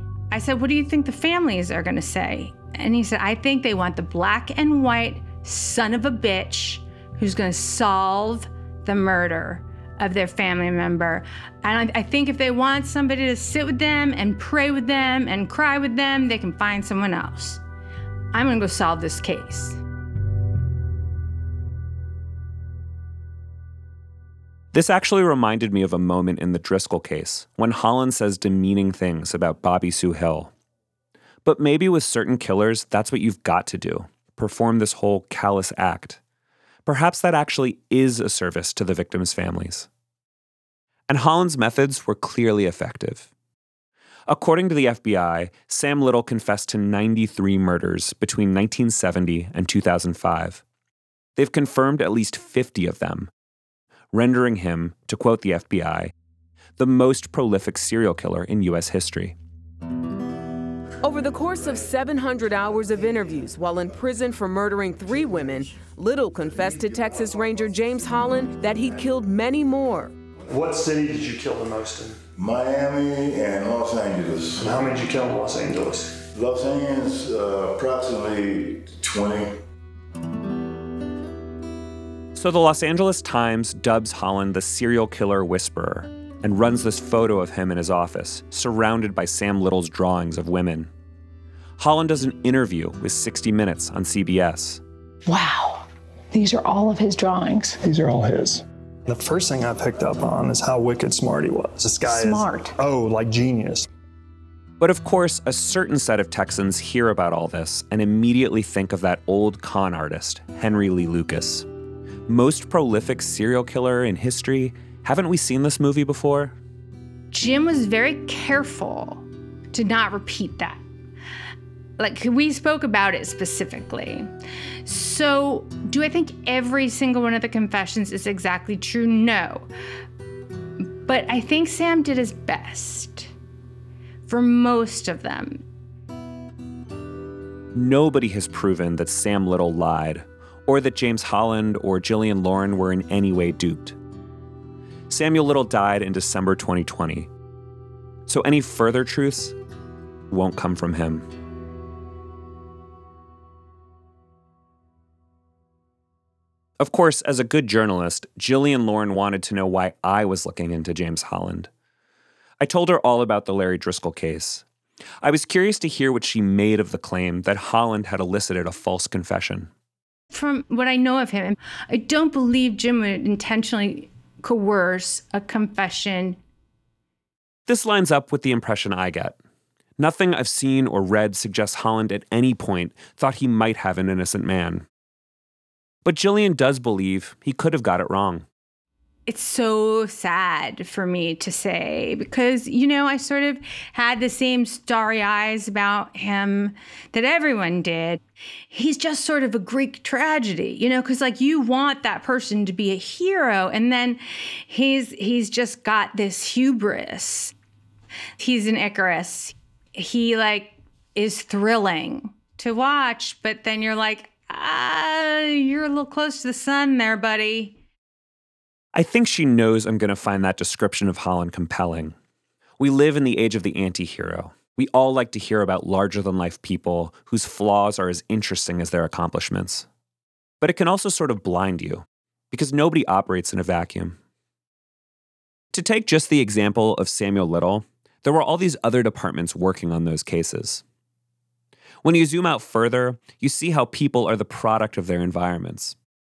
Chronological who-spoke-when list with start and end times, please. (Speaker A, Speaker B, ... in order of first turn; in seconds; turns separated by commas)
Speaker A: 0.3-17.6, Speaker A: 18.3-19.8, Speaker B: 24.7-30.5, Speaker B: 31.4-36.2, Speaker B: 36.9-39.9, Speaker B: 41.1-43.3, Speaker B: 44.3-50.6, Speaker B: 51.4-53.3, Speaker B: 54.1-56.1, Speaker B: 56.8-59.4, Speaker C: 61.0-70.1, Speaker D: 70.5-72.2, Speaker E: 72.4-74.6, Speaker D: 74.6-76.2, Speaker E: 76.2-79.6, Speaker B: 82.3-90.9, Speaker B: 91.8-94.8, Speaker F: 95.3-95.8, Speaker F: 96.3-97.7, Speaker D: 97.7-103.9, Speaker B: 104.8-111.7, Speaker B: 112.3-116.5, Speaker A: 117.3-120.8, Speaker A: 122.0-124.3, Speaker A: 124.8-129.7, Speaker A: 131.0-133.3, Speaker A: 134.2-135.6, Speaker B: 137.7-144.0, Speaker B: 145.1-147.3, Speaker B: 148.3-149.6, Speaker B: 150.3-151.2, Speaker B: 156.8-161.7, Speaker B: 162.6-164.6, Speaker B: 165.2-169.7, Speaker A: 170.3-176.4, Speaker B: 177.7-179.4, Speaker B: 180.0-184.8, Speaker B: 186.0-188.4, Speaker A: 189.3-207.5, Speaker A: 208.4-217.8, Speaker B: 218.9-222.1, Speaker B: 222.8-229.8, Speaker B: 230.6-234.2, Speaker B: 235.7-240.8, Speaker B: 242.0-245.9